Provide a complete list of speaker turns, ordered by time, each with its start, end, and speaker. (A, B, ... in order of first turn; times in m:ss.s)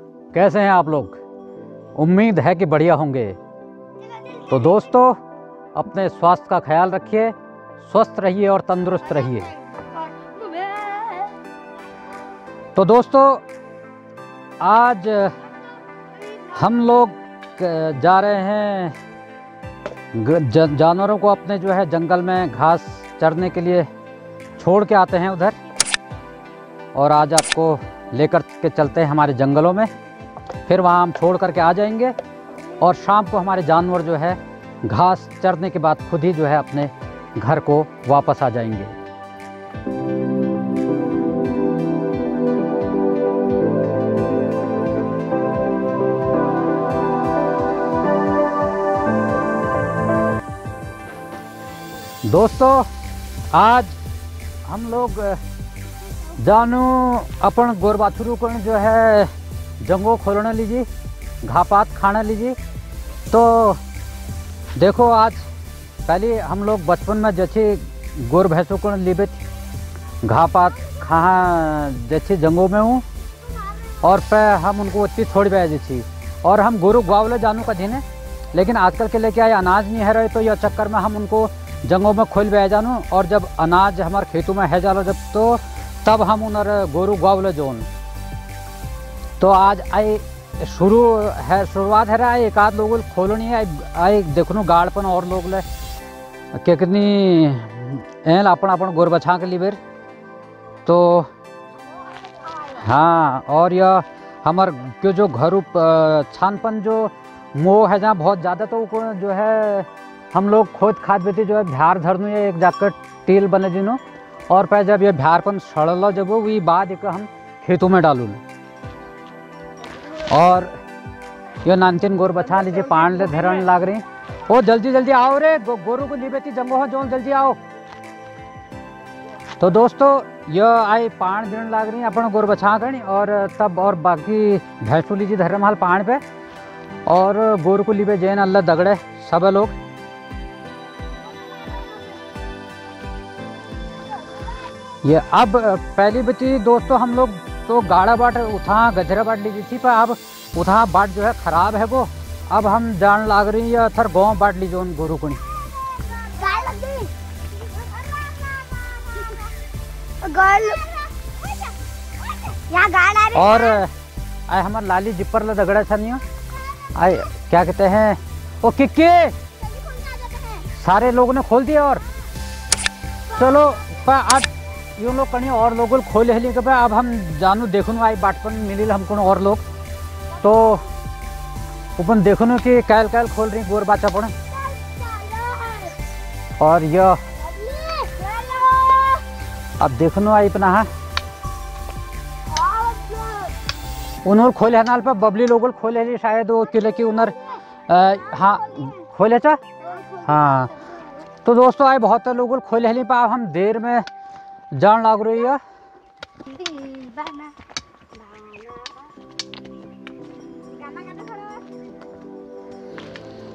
0:00.3-0:01.2 A
0:02.0-0:03.4 A
0:04.5-0:05.2 A
0:05.8-0:09.5 A
0:09.8-0:11.3 B
0:12.8-0:13.4 A
0:14.6-0:15.4 A
0:16.2-0:16.5 B
0:16.5-0:19.0 A
0:20.1-0:23.9 A
0:24.6-0:25.6 A
0:27.0-0:29.9 A
0:30.7-0:32.2 A
0:32.8-0:39.0 A
0:52.2-0:52.9 A
0:53.5-0:54.0 A
0:54.7-0:55.4 A
0:56.4-0:59.3 A
0:59.8-1:00.9 A
1:01.4-1:02.6 A
1:03.3-1:03.8 A
1:04.8-1:05.4 A
1:06.1-1:09.4 A
1:10.2-1:13.0 A
1:13.5-1:14.0 B
1:14.0-1:27.9 A
1:29.4-1:35.6 A
1:36.6-1:39.8 A
1:40.8-1:41.3 A
1:42.3-1:42.8 B
1:42.7-1:58.4 A
2:00.1-2:00.7 A
2:01.6-2:07.6 A
2:09.6-2:16.2 A
2:17.1-2:19.7 A
2:21.2-2:22.3 B
2:25.0-2:35.4 A
2:35.7-2:39.6 B
2:40.2-2:43.8 B
2:43.3-2:43.9 A
2:44.5-2:46.2 A
2:46.7-2:47.1 B
2:47.0-2:49.4 A
2:49.6-2:50.7 B
2:50.7-2:52.0 A
2:53.3-2:59.6 A
3:00.4-3:00.8 B
3:00.4-3:00.8 A
3:02.0-3:04.3 A
3:04.5-3:06.0 B
3:06.6-3:07.2 A
3:07.4-3:09.3 B
3:09.8-3:10.9 A
3:12.5-3:13.6 B
3:14.2-3:17.4 A
3:16.9-3:17.6 B
3:17.9-3:19.6 A
3:18.4-3:19.0 B
3:19.8-3:21.2 B
3:20.2-3:20.7 A
3:21.4-3:24.1 A
3:24.7-3:25.6 A
3:26.4-3:27.6 B
3:28.2-3:29.1 B
3:30.7-3:31.7 B